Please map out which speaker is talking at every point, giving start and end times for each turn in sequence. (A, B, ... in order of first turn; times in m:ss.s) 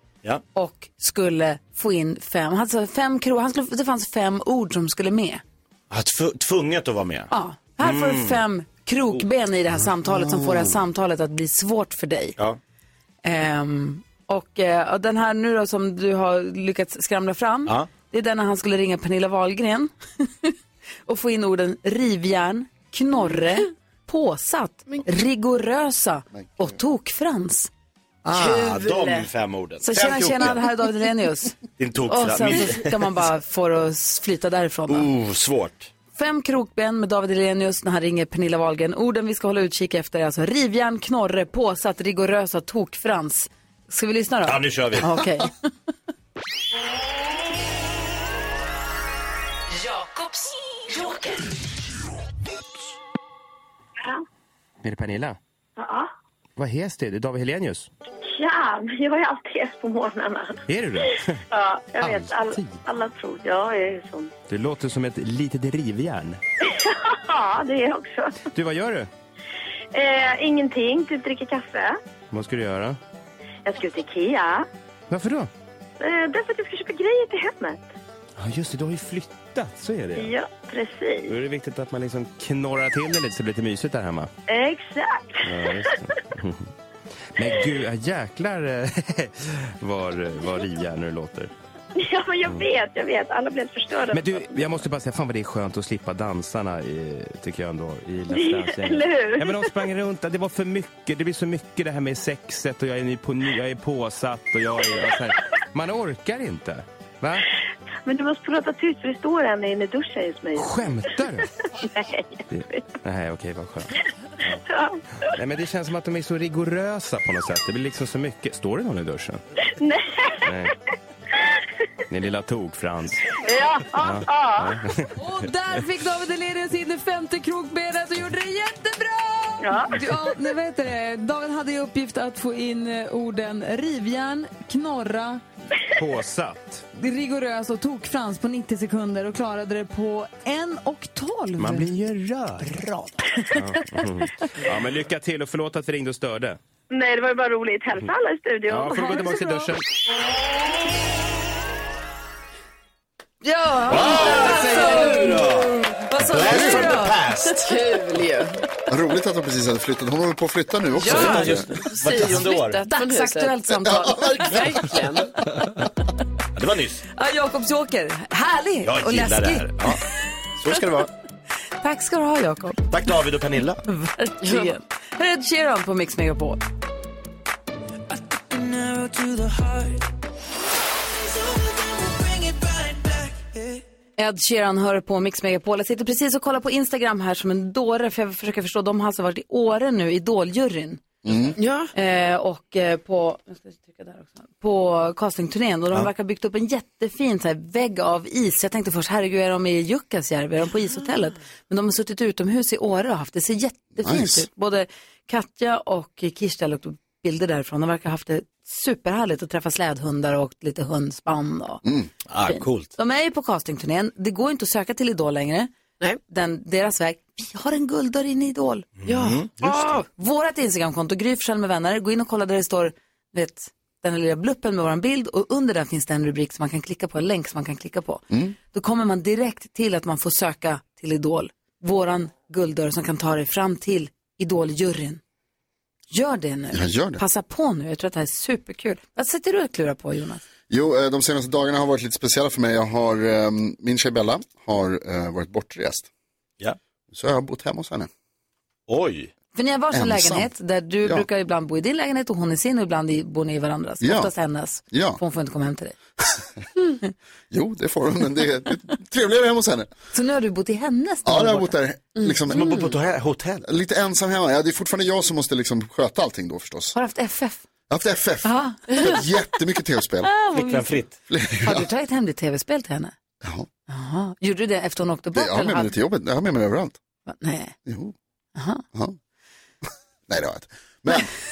0:00.5-0:05.4 A
0:05.9-0:08.4 B
0:07.3-0:12.4 A
0:13.2-0:20.5 A
0:21.0-0:27.7 A
0:28.2-0:30.6 B
0:28.3-0:29.1 A
0:29.8-0:35.1 A
0:31.8-0:33.1 B
0:34.9-0:35.9 B
0:36.1-0:45.5 A
0:44.4-0:45.1 B
0:54.8-0:55.4 C
0:55.8-0:56.1 D
0:56.6-0:57.9 C
0:58.3-1:00.6 D
1:00.7-1:01.4 C
1:01.5-1:04.3 D
1:02.0-1:02.8 C
1:04.5-1:06.4 C
1:06.7-1:08.4 D
1:08.5-1:09.1 C
1:09.9-1:12.0 D
1:12.3-1:13.0 C
1:13.6-1:14.7 D
1:15.1-1:15.5 C
1:16.0-1:17.8 D
1:18.4-1:20.3 C
1:20.2-1:21.3 D
1:21.3-1:24.3 C
1:24.5-1:25.6 D
1:25.4-1:26.7 C
1:27.4-1:31.5 C
1:32.0-1:34.7 D
1:34.1-1:47.4 C
1:38.3-1:39.7 D
1:48.0-1:50.8 D
1:50.6-1:51.5 C
1:51.9-1:52.9 D
1:52.5-1:53.9 C
1:54.6-1:55.0 D
1:55.4-1:59.4 C
1:59.8-2:00.4 D
2:00.5-2:00.7 C
2:02.1-2:03.2 C
2:03.4-2:04.7 D
2:04.0-2:05.1 C
2:05.2-2:15.4 A
2:09.6-2:10.0 D
2:16.0-2:16.8 C
2:17.0-2:21.9 A
2:21.6-2:22.9 C
2:23.5-2:26.6 C
2:26.9-2:29.3 D
2:28.7-2:29.8 C
2:29.1-2:29.7 A
2:33.4-2:37.5 A
2:33.8-2:37.8 B
2:34.8-2:35.1 E
2:36.4-2:36.9 F
2:37.6-2:38.6 E
2:38.9-2:41.7 F
2:41.0-2:42.8 B
2:41.0-2:43.6 E
2:42.9-2:44.8 A
2:43.8-2:44.6 F
2:44.4-2:45.3 E
2:46.5-2:47.0 B
2:47.1-2:49.8 A
2:48.8-2:50.0 B
2:50.6-2:51.1 B
2:51.8-2:52.9 A
2:52.9-2:53.8 B
2:53.8-2:56.6 A
2:54.4-2:54.7 E
3:04.2-3:11.0 A
3:11.2-3:11.6 F
3:11.6-3:11.9 E
3:11.9-3:31.8 A
3:24.0-3:24.4 F
3:31.8-3:32.1 F
3:32.2-3:32.9 B
3:32.4-3:35.7 A
3:36.3-3:38.9 A
3:39.0-3:39.9 B
3:39.0-3:40.0 E
3:40.1-3:55.2 A
3:48.3-3:48.5 F
3:56.1-4:00.4 A
3:56.7-3:57.2 F
4:00.7-4:06.1 F
4:07.1-4:08.1 F
4:08.9-4:09.3 B
4:09.5-4:15.9 A
4:09.9-4:10.5 F
4:14.0-4:14.3 F
4:14.9-4:15.2 F
4:17.5-4:19.9 F
4:20.1-4:21.7 A
4:21.2-4:22.9 F
4:22.5-4:23.6 B
4:23.6-4:27.0 F
4:26.9-4:27.6 A
4:27.9-4:30.3 F
4:28.4-4:29.1 A
4:30.3-4:30.9 A
4:30.5-4:31.1 B
4:31.3-4:31.9 F
4:31.6-4:33.1 A
4:33.4-4:33.7 F
4:33.9-4:35.9 A
4:35.3-4:37.0 F
4:37.3-4:37.7 A
4:37.8-4:38.1 F
4:38.5-4:38.8 A
4:40.3-4:41.3 F